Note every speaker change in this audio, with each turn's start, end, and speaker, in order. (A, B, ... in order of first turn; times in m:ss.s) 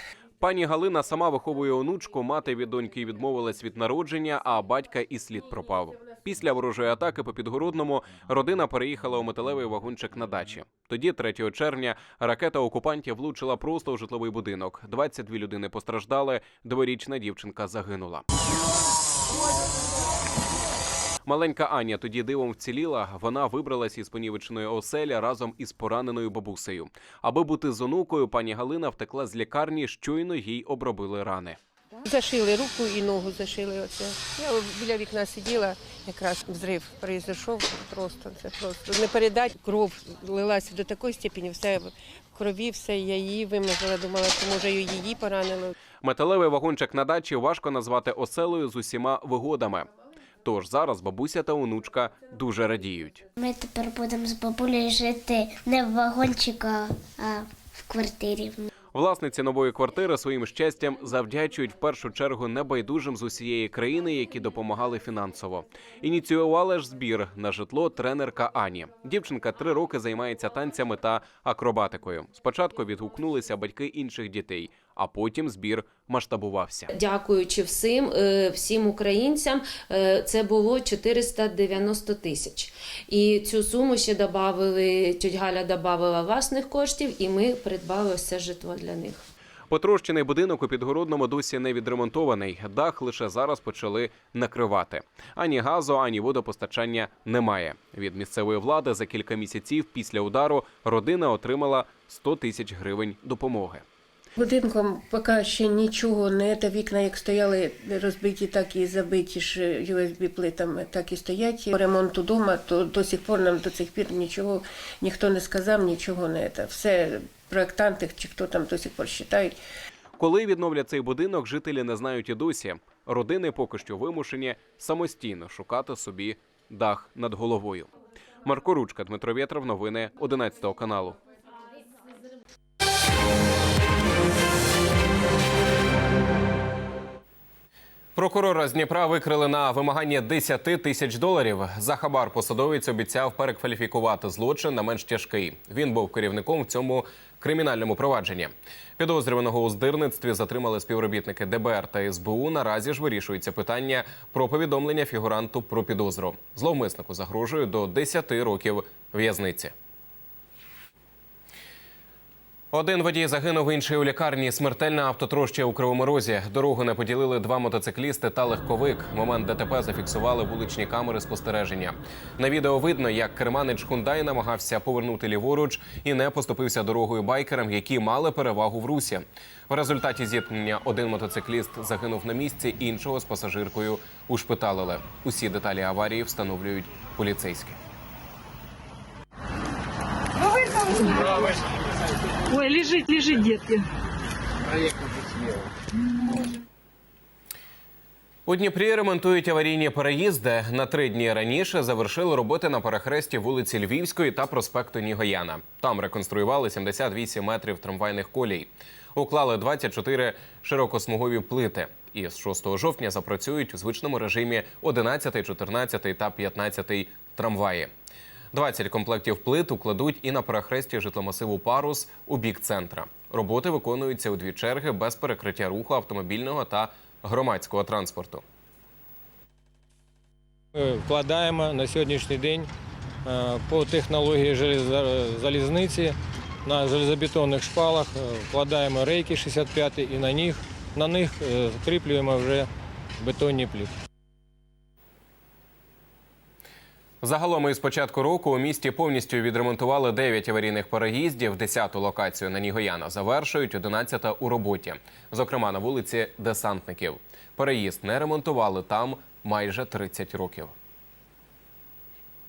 0:00.4-0:18.2 A
0:21.2-0:31.6 A
0:32.0-0:45.7 B
0:46.0-0:49.9 A
0:50.4-0:53.2 A
0:53.4-0:58.7 C
0:58.9-1:16.9 A
1:16.9-1:29.2 D
1:29.7-1:43.8 A
1:44.4-1:59.6 B
2:00.2-2:07.9 A
2:08.4-2:11.2 A
2:18.2-2:39.7 A
2:42.7-3:07.8 A
3:10.6-3:11.2 E
3:12.5-3:13.8 E
3:18.4-3:37.9 A
3:38.5-3:48.4 A
3:50.8-3:52.7 F
3:53.2-4:02.7 F
4:03.2-4:03.9 F
4:07.2-4:20.7 A